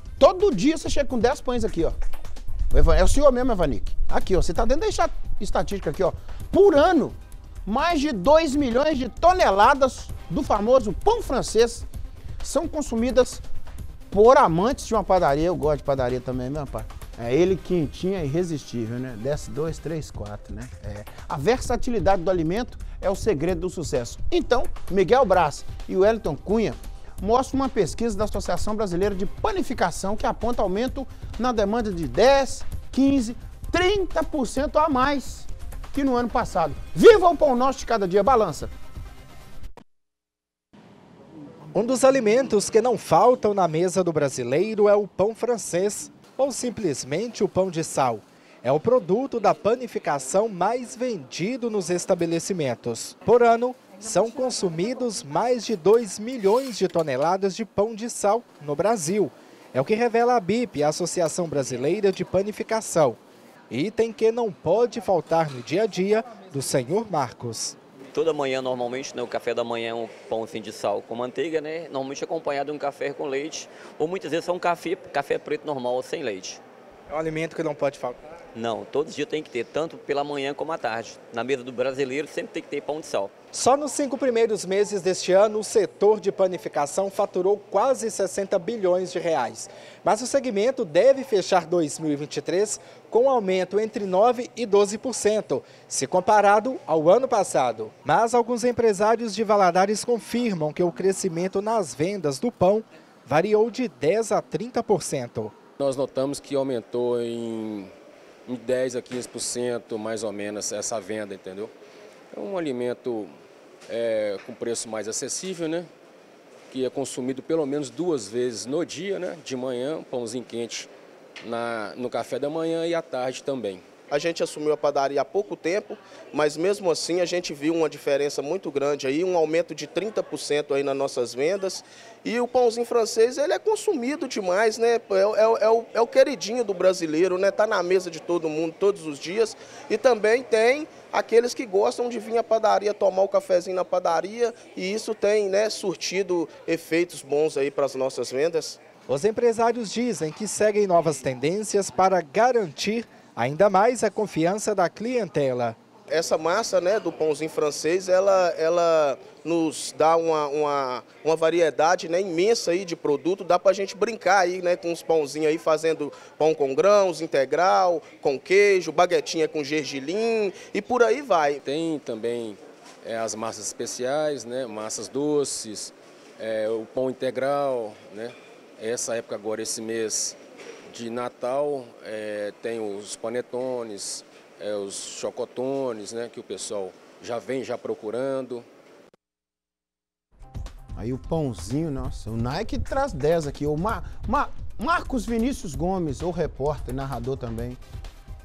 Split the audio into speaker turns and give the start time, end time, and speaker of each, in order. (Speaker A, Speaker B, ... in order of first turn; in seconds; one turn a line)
Speaker A: 0.2-1.9
Speaker A: 2.7-11.8
Speaker A: 12.4-13.4
Speaker A: 14.1-38.7
Speaker B: 41.7-67.8
Speaker C: 68.1-76.6
Speaker B: 77.1-78.2
Speaker C: 78.5-83.3
Speaker B: 83.5-105.5
Speaker D: 105.8-107.9
Speaker D: 108.5-111.7
Speaker D: 112.3-113.3
Speaker D: 113.9-115.9
Speaker D: 116.7-120.9
Speaker D: 121.4-123.8
Speaker E: 124.1-148.8
Speaker B: 149.1-155.8
Speaker E: 156.1-171.6
Speaker D: 171.6-180.4
Speaker D: 180.9-188.6
Speaker A: 190.9-197.8